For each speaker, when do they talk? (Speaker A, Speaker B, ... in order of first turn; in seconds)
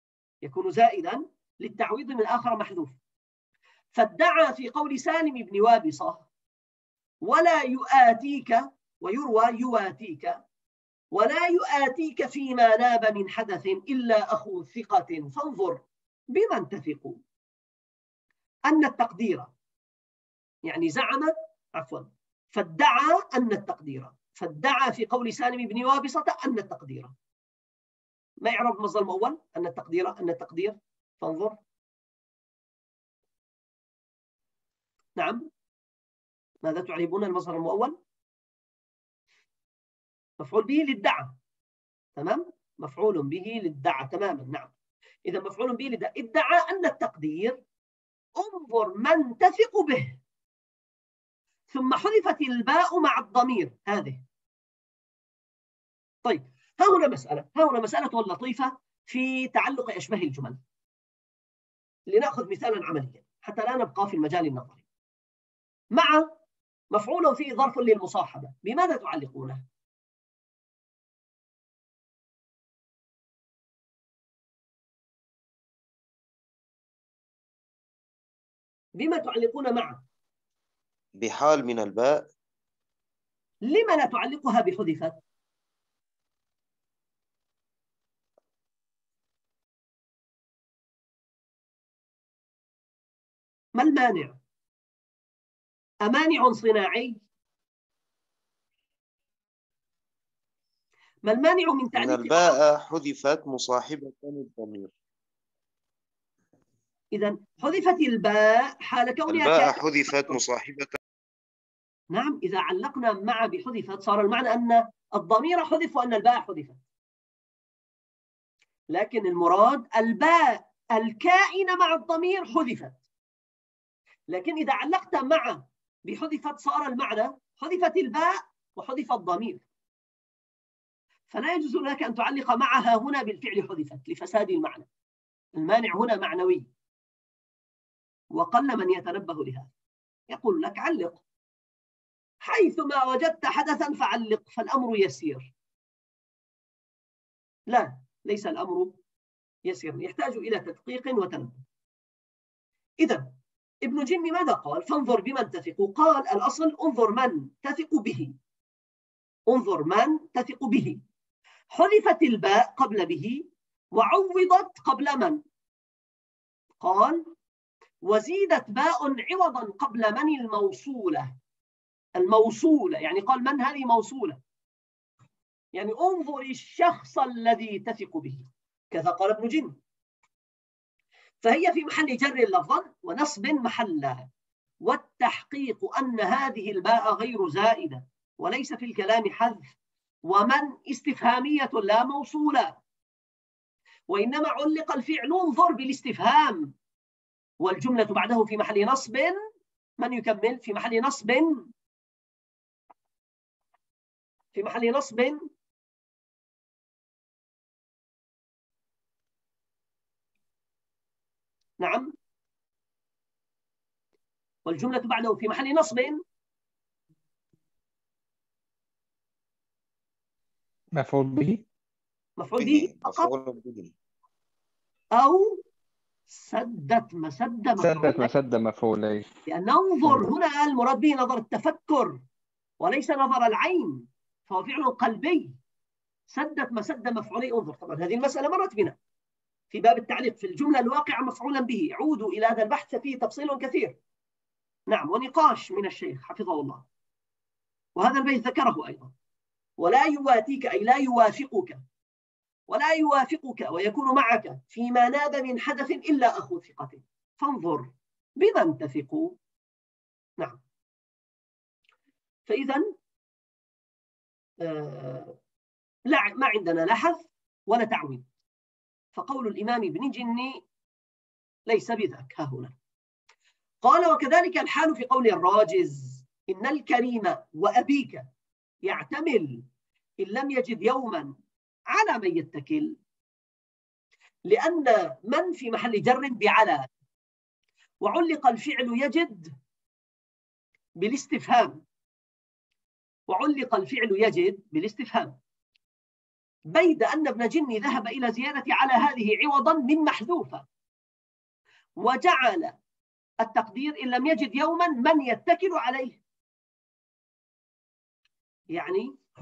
Speaker A: 0.4-3.0, 3.9-6.3, 7.2-10.4, 11.1-17.2, 18.7-19.5, 20.6-27.1, 28.4-31.6, 35.2-35.5, 36.6-38.0, 40.4-41.4, 42.2-44.7, 45.3-47.6, 48.4-50.2, 51.7-54.2, 56.2-60.6, 62.1-64.8, 65.9-66.3, 66.9-69.6, 79.0-80.0, 83.6-85.2, 93.8-94.4, 96.0-97.2, 101.2-102.6, 107.1-110.4, 112.1-116.8, 118.9-123.0, 124.3-129.6, 131.3-134.9, 135.6-136.7, 138.3-139.7, 140.3-141.2, 142.4-145.5, 147.7-149.0, 149.7-151.6, 153.0-158.3, 159.5-161.0, 161.7-165.4, 166.8-167.3, 168.0-171.3, 172.2-174.4, 175.8-179.8, 181.4-184.3, 184.8-189.7, 190.3-192.8, 194.1-196.7, 197.6-199.4, 200.0-201.7, 204.5-205.4, 211.8-212.1, 214.7-216.2, 222.4-223.3, 225.2-225.6, 226.3-228.3, 229.5-232.2, 232.8-235.6, 236.3-239.0, 239.7-244.0, 244.9-246.8, 248.0-249.1, 249.8-251.8, 252.7-259.4, 262.5-262.9, 264.6-265.4, 266.1-268.3, 269.1-270.6, 271.7-272.7, 273.8-278.3, 278.9-279.6, 280.2-281.3, 281.9-283.0, 284.5-286.9, 288.0-289.6, 291.0-291.8, 293.3-295.4, 296.7-300.6, 302.0-302.8, 303.4-306.2, 308.7-309.2
Speaker B: 81.2-82.3, 101.9-104.9, 109.3-111.0, 222.6-223.9
Speaker C: 220.9-221.6, 227.8-229.3